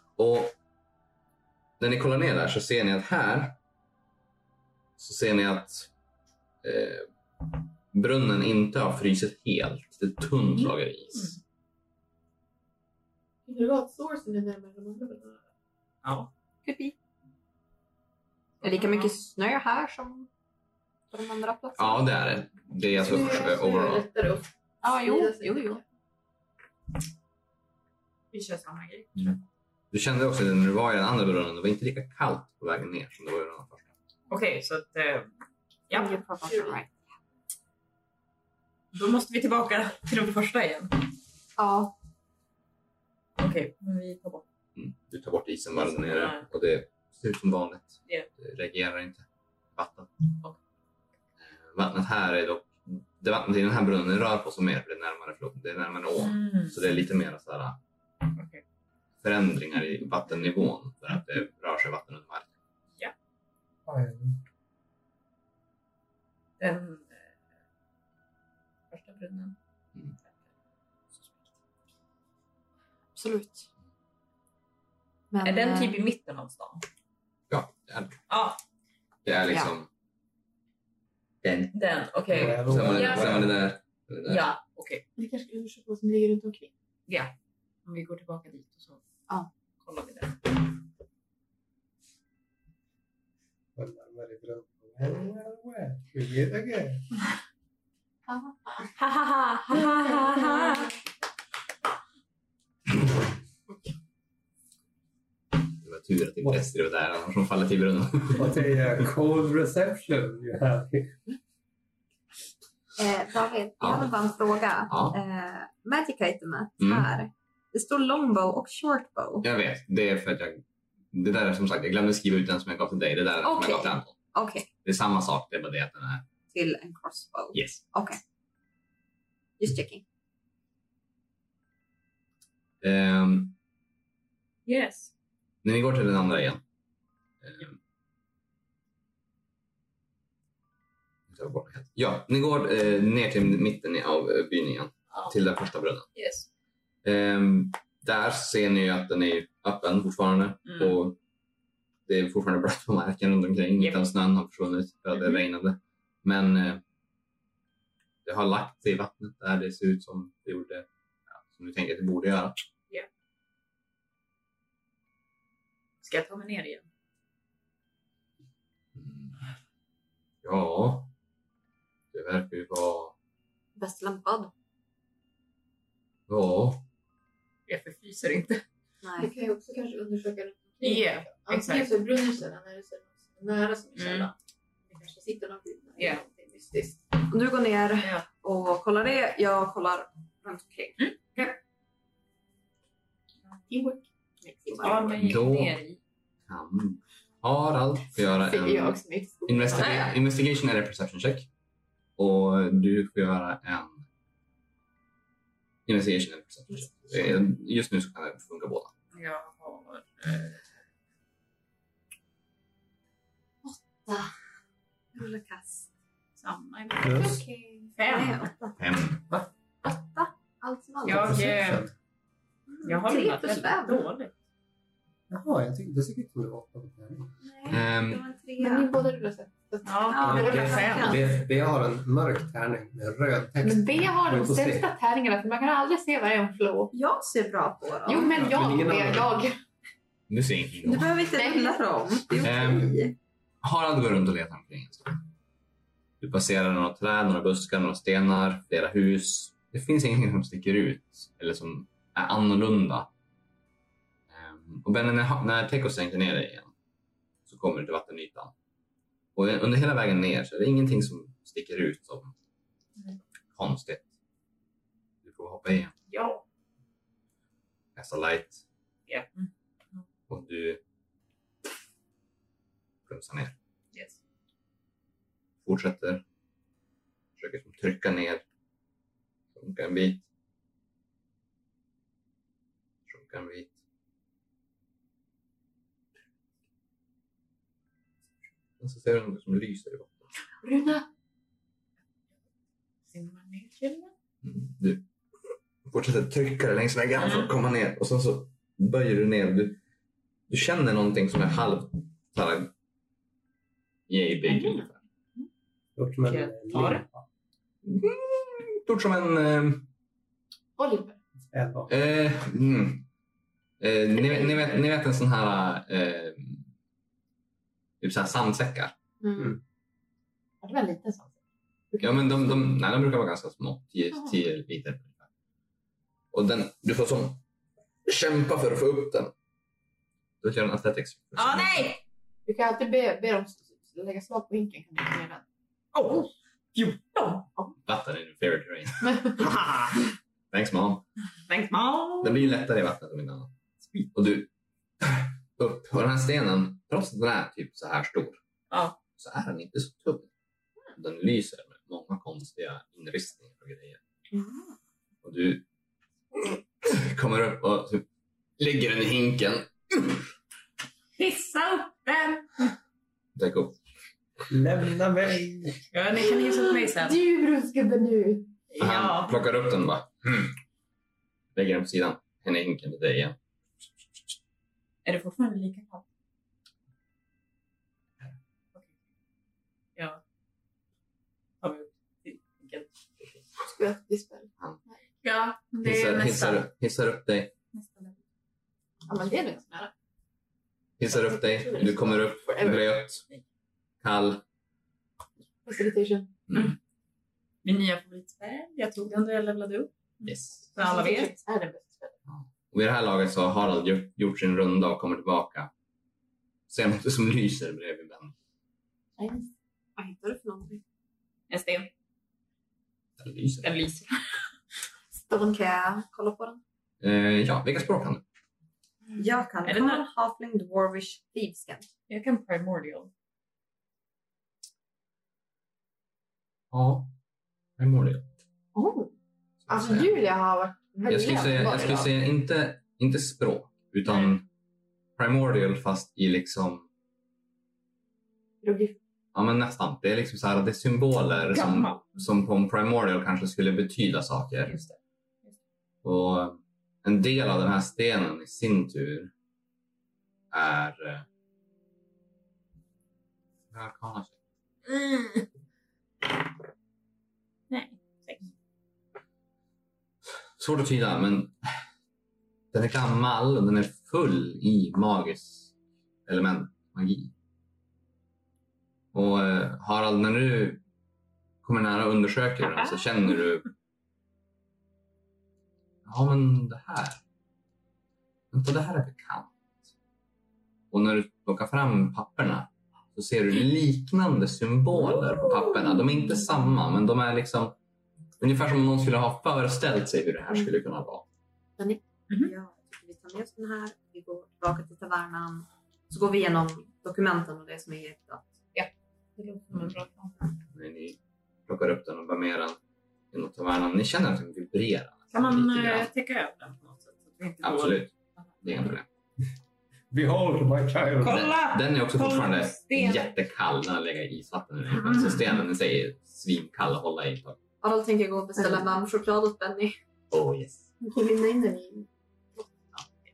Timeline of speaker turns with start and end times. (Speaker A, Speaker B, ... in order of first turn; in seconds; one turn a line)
Speaker A: 0.2-0.5
Speaker A: 1.8-3.6
Speaker A: 5.0-5.9
Speaker A: 6.6-11.4
Speaker B: 10.6-11.3
Speaker C: 13.5-15.4
Speaker B: 16.0-16.3
Speaker D: 16.6-17.0
Speaker B: 18.6-19.1
Speaker D: 18.6-20.3
Speaker D: 21.1-22.1
Speaker A: 21.8-24.1
Speaker C: 23.0-25.8
Speaker D: 24.8-25.8
Speaker B: 28.3-29.4
Speaker A: 29.9-33.9
Speaker B: 34.3-35.3
Speaker B: 35.9-36.2
Speaker D: 35.9-36.9
Speaker B: 38.9-41.0
Speaker D: 41.6-41.9
Speaker B: 43.4-44.5
Speaker A: 44.8-50.1
Speaker B: 45.8-46.5
Speaker A: 51.4-57.8
Speaker B: 56.2-56.8
Speaker B: 58.4-58.6
Speaker A: 59.2-62.5
Speaker E: 63.9-64.4
Speaker B: 66.6-67.2
Speaker B: 68.9-69.5
Speaker D: 73.2-73.7
Speaker D: 75.3-76.0
Speaker B: 75.4-76.8
Speaker A: 77.5-78.2
Speaker B: 78.3-78.6
Speaker A: 79.2-79.9
Speaker A: 81.4-81.7
Speaker B: 81.7-83.5
Speaker E: 82.3-83.5
Speaker A: 82.3-84.4
Speaker B: 84.2-85.0
Speaker C: 85.2-86.7
Speaker B: 87.1-87.3
Speaker B: 87.9-89.0
Speaker B: 89.8-90.4
Speaker E: 93.8-97.0
Speaker C: 98.3-98.9
Speaker B: 99.0-100.9
Speaker C: 100.6-100.8
Speaker A: 105.8-108.6
Speaker E: 108.3-111.2
Speaker D: 113.0-119.5
Speaker A: 113.8-114.1
Speaker A: 114.9-115.2
Speaker A: 116.8-117.1
Speaker A: 119.4-124.1
Speaker D: 123.4-124.7
Speaker A: 124.8-126.2
Speaker D: 126.5-128.2
Speaker A: 127.5-127.8
Speaker D: 129.6-130.0
Speaker A: 132.8-133.6
Speaker B: 134.7-135.1
Speaker A: 135.6-136.6
Speaker A: 137.4-137.8
Speaker A: 141.3-146.1
Speaker B: 146.2-146.5
Speaker A: 147.0-151.2
Speaker B: 150.7-151.0
Speaker A: 152.1-156.8
Speaker B: 153.8-154.1
Speaker B: 155.2-155.4
Speaker A: 158.2-162.6
Speaker B: 166.0-166.9
Speaker A: 169.0-169.4
Speaker A: 170.4-171.1
Speaker A: 172.1-173.1
Speaker D: 173.8-174.5
Speaker A: 176.3-176.8
Speaker B: 177.7-178.6
Speaker D: 179.0-179.3
Speaker C: 179.2-184.3
Speaker B: 180.8-182.0
Speaker B: 184.0-184.3
Speaker C: 184.9-187.0
Speaker B: 186.0-186.2
Speaker D: 187.3-191.6
Speaker C: 193.7-195.2
Speaker D: 194.7-195.0
Speaker B: 194.8-196.0
Speaker A: 195.2-195.8
Speaker A: 196.5-201.5
Speaker C: 198.4-200.1
Speaker D: 199.8-200.1
Speaker A: 202.2-204.0
Speaker A: 205.9-208.9
Speaker B: 209.1-210.6
Speaker D: 213.6-214.3
Speaker D: 215.2-215.9
Speaker B: 216.4-217.4
Speaker E: 217.0-217.4
Speaker D: 217.1-218.8
Speaker B: 218.0-218.5
Speaker A: 218.8-219.2
Speaker D: 219.8-221.5
Speaker B: 221.1-221.9
Speaker E: 221.1-221.9
Speaker D: 222.8-224.1
Speaker B: 222.8-224.3
Speaker E: 225.3-227.3
Speaker D: 227.4-228.9
Speaker A: 227.7-228.2
Speaker C: 228.6-230.9
Speaker B: 229.8-231.2
Speaker D: 230.1-231.2
Speaker E: 230.2-234.9
Speaker C: 233.6-236.9
Speaker D: 236.9-238.4
Speaker C: 238.1-239.6
Speaker E: 238.3-239.3
Speaker A: 240.3-241.2
Speaker D: 240.8-243.2
Speaker C: 241.3-241.8
Speaker A: 242.4-243.0
Speaker A: 243.6-245.2
Speaker A: 246.2-253.1
Speaker A: 254.3-256.7
Speaker A: 257.5-258.5
Speaker A: 259.4-262.4
Speaker A: 263.6-264.1
Speaker A: 265.2-265.9
Speaker B: 266.1-266.4
Speaker A: 268.0-268.6
Speaker B: 269.1-270.0
Speaker A: 270.3-270.8
Speaker A: 273.1-273.6
Speaker B: 273.9-274.2
Speaker A: 275.6-276.2
Speaker A: 277.4-278.4
Speaker A: 279.6-280.3
Speaker A: 283.1-283.7
Speaker A: 288.8-290.2
Speaker C: 290.6-291.1
Speaker B: 293.1-294.1
Speaker A: 294.4-295.1
Speaker A: 295.9-299.8
Speaker B: 297.2-297.5
Speaker A: 300.5-302.7
Speaker A: 304.1-304.9
Speaker E: 306.0-307.2
Speaker B: 306.2-307.0
Speaker A: 307.8-309.9
Speaker C: 310.8-311.2
Speaker E: 311.5-311.9
Speaker A: 311.9-313.1
Speaker A: 313.8-316.6
Speaker A: 318.0-319.0
Speaker C: 319.2-319.6
Speaker C: 320.6-321.4
Speaker C: 321.9-322.7
Speaker A: 322.0-325.2
Speaker A: 326.3-327.4
Speaker A: 328.1-329.3
Speaker A: 330.4-332.0
Speaker B: 331.4-332.0
Speaker C: 332.5-335.4
Speaker B: 335.9-337.5
Speaker A: 337.9-339.5
Speaker C: 339.0-339.4
Speaker B: 339.4-340.0
Speaker A: 340.5-341.0
Speaker B: 341.5-342.6
Speaker A: 342.2-343.5
Speaker A: 344.1-344.5
Speaker A: 345.0-348.4
Speaker B: 348.7-349.0
Speaker A: 349.2-350.3
Speaker A: 351.0-354.0
Speaker A: 355.2-355.6
Speaker A: 356.3-358.1
Speaker A: 358.6-360.2
Speaker B: 361.2-362.7
Speaker A: 363.4-363.8
Speaker E: 364.5-365.8
Speaker B: 365.9-367.2
Speaker C: 366.9-368.5
Speaker B: 368.7-369.4
Speaker A: 368.8-370.5
Speaker A: 371.6-373.4
Speaker B: 375.1-376.0
Speaker B: 380.0-380.2
Speaker B: 381.6-382.9
Speaker C: 383.6-384.9
Speaker B: 385.2-386.6
Speaker A: 385.8-387.5
Speaker C: 389.1-389.9
Speaker A: 391.0-393.2
Speaker C: 391.1-392.9
Speaker A: 394.0-394.4
Speaker C: 395.6-396.4
Speaker A: 396.5-396.8
Speaker B: 397.6-399.9
Speaker A: 400.2-400.7
Speaker B: 400.7-401.4
Speaker C: 400.8-402.2
Speaker A: 402.3-405.7
Speaker A: 406.7-408.3
Speaker C: 409.2-409.5
Speaker D: 410.0-410.8
Speaker B: 411.5-411.9
Speaker A: 413.2-413.7
Speaker B: 413.6-414.2
Speaker C: 415.2-415.6
Speaker D: 415.5-416.6
Speaker A: 417.0-418.2
Speaker D: 419.2-421.9
Speaker B: 419.6-420.0
Speaker B: 422.1-423.1
Speaker A: 426.7-427.1
Speaker A: 427.8-428.3
Speaker C: 428.8-429.1
Speaker A: 429.7-430.2
Speaker C: 429.7-432.1
Speaker A: 431.1-434.4
Speaker A: 435.2-436.9
Speaker C: 438.6-439.0
Speaker A: 439.3-444.8
Speaker B: 441.5-442.0
Speaker B: 444.6-445.6
Speaker A: 446.0-449.3
Speaker A: 450.5-451.2
Speaker A: 453.7-454.4
Speaker B: 457.7-458.5
Speaker A: 460.6-461.6
Speaker A: 462.7-465.7
Speaker A: 466.3-467.3
Speaker A: 469.1-470.8
Speaker A: 471.6-473.7
Speaker B: 472.6-473.0
Speaker A: 476.1-477.2
Speaker A: 478.5-479.5
Speaker A: 480.9-487.8
Speaker B: 485.0-485.9
Speaker A: 488.4-491.2
Speaker D: 492.4-498.5
Speaker B: 498.7-500.3
Speaker A: 500.7-502.8
Speaker A: 503.3-506.1
Speaker B: 505.3-508.0
Speaker A: 507.6-508.1
Speaker A: 508.6-509.1
Speaker E: 510.1-511.5
Speaker B: 511.2-513.3
Speaker A: 511.3-517.6
Speaker B: 514.9-515.5
Speaker D: 517.8-520.0
Speaker A: 520.3-520.9
Speaker C: 521.0-522.1